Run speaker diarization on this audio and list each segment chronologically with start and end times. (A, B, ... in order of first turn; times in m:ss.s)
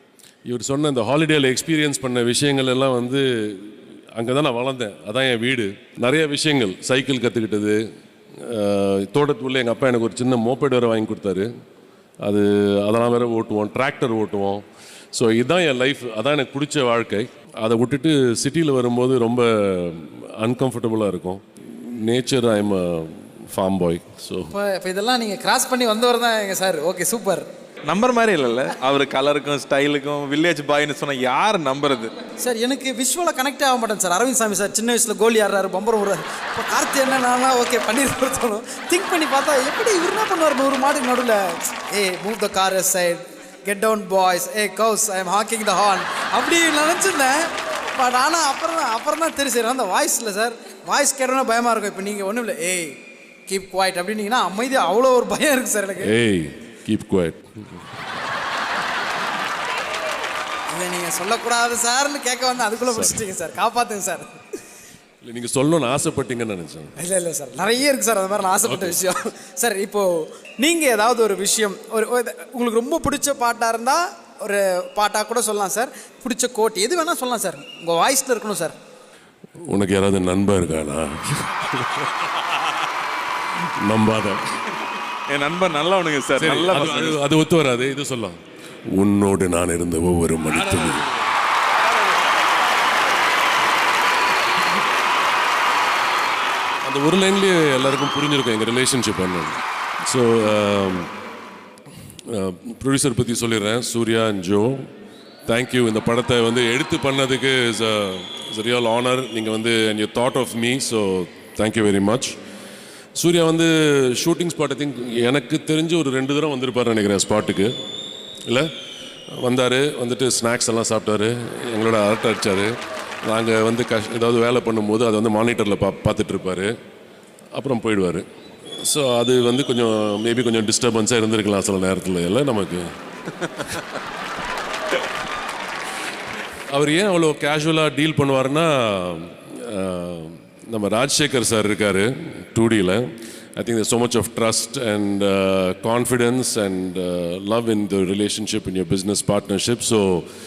0:00.5-0:07.8 A
0:08.4-0:11.5 A
0:12.2-0:24.5 A
0:24.5-0:27.5 B
0:27.9-0:32.1 C
0:32.4-0:52.9 B
0:53.5-0:56.1 B
0:56.0-0:57.9 A
1:00.7-1:04.3 B
1:02.9-1:03.2 A
1:05.2-1:06.9 A
1:07.0-1:18.8 B
1:08.6-1:09.0 A
1:19.7-1:22.2 A
1:23.8-1:24.5 A
1:25.3-1:27.2 C
1:26.4-1:28.4 A
1:28.9-1:31.1 A
1:36.8-1:41.1 A
1:42.3-1:44.9 A
1:45.5-1:52.4 A
1:53.2-1:57.7 A
1:59.4-2:02.7 A
2:03.2-2:06.7 A
2:07.6-2:12.9 A
2:16.7-2:23.0 A
2:23.6-2:30.2 A